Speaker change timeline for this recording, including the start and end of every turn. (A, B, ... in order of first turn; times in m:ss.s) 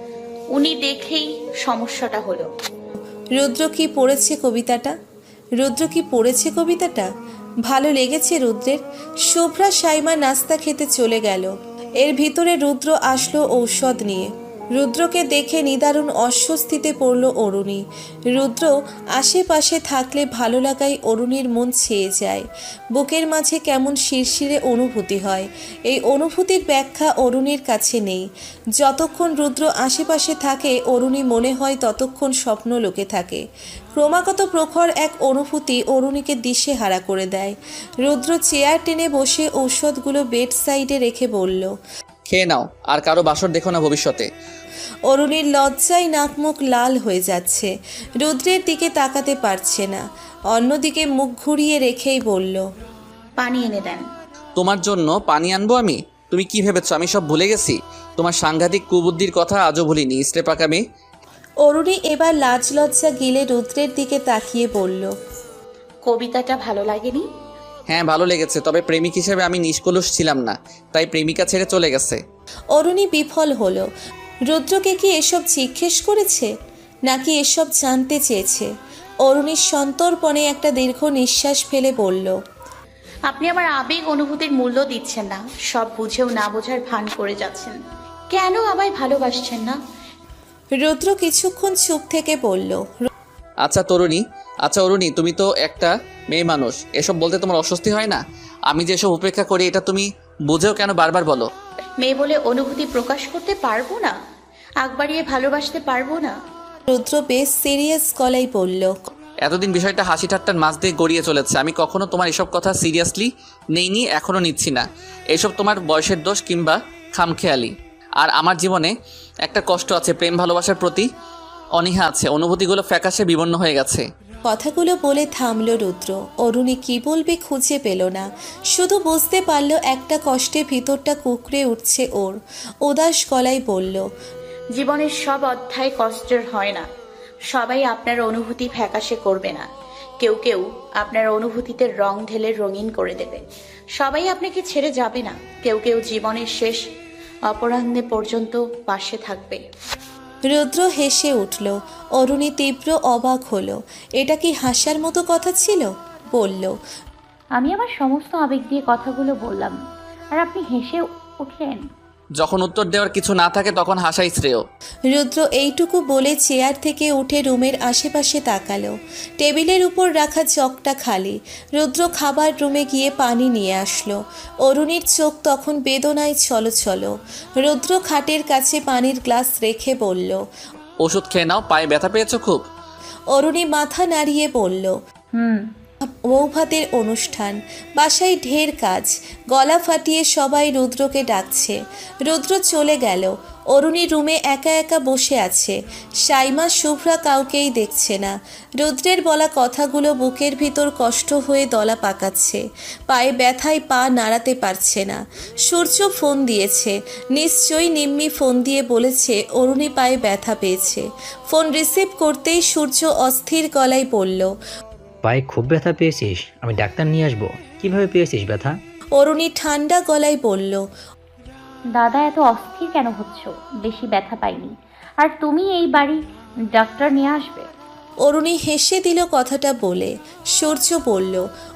0:00.5-0:02.5 A
0:03.4-0:05.0 B
0:05.6-0:07.1 B
0:07.7-0:33.4 B
0:34.0-0:41.8 B
0:42.3-0:44.3 C
0:45.1-0:52.7 B
0:53.4-0:54.0 A
0:54.6-1:00.8 C
1:01.6-1:05.1 B
1:06.0-1:07.3 A
1:07.9-1:12.2 C
1:12.7-1:13.9 B
1:14.5-1:16.5 B
1:17.1-1:18.7 B
1:19.2-1:22.4 B
1:23.3-1:27.8 A
1:28.3-1:29.8 A
1:30.8-1:33.1 B
1:33.6-1:41.5 C
1:42.0-1:44.2 A
1:44.8-1:46.4 A
1:46.9-1:49.0 B
1:49.4-1:58.9 C
1:59.4-2:01.1 C
2:01.8-2:04.1 C
2:04.5-2:14.1 B
2:14.8-2:16.9 A
2:17.5-2:19.7 A
2:20.2-2:23.4 A
2:24.0-2:26.9 A
2:27.5-2:29.6 A
2:30.5-2:36.8 B
2:37.6-2:39.8 D
2:40.3-2:41.8 D
2:42.4-2:44.6 C
2:45.1-3:00.5 B
3:01.0-3:02.6 C
3:03.3-3:05.0 B
3:05.3-3:05.6 D
3:06.0-3:34.6 B
3:35.2-3:38.8 E
3:39.2-3:40.9 B
3:41.9-3:46.2 D
3:46.8-3:47.7 D
3:48.2-3:51.5 B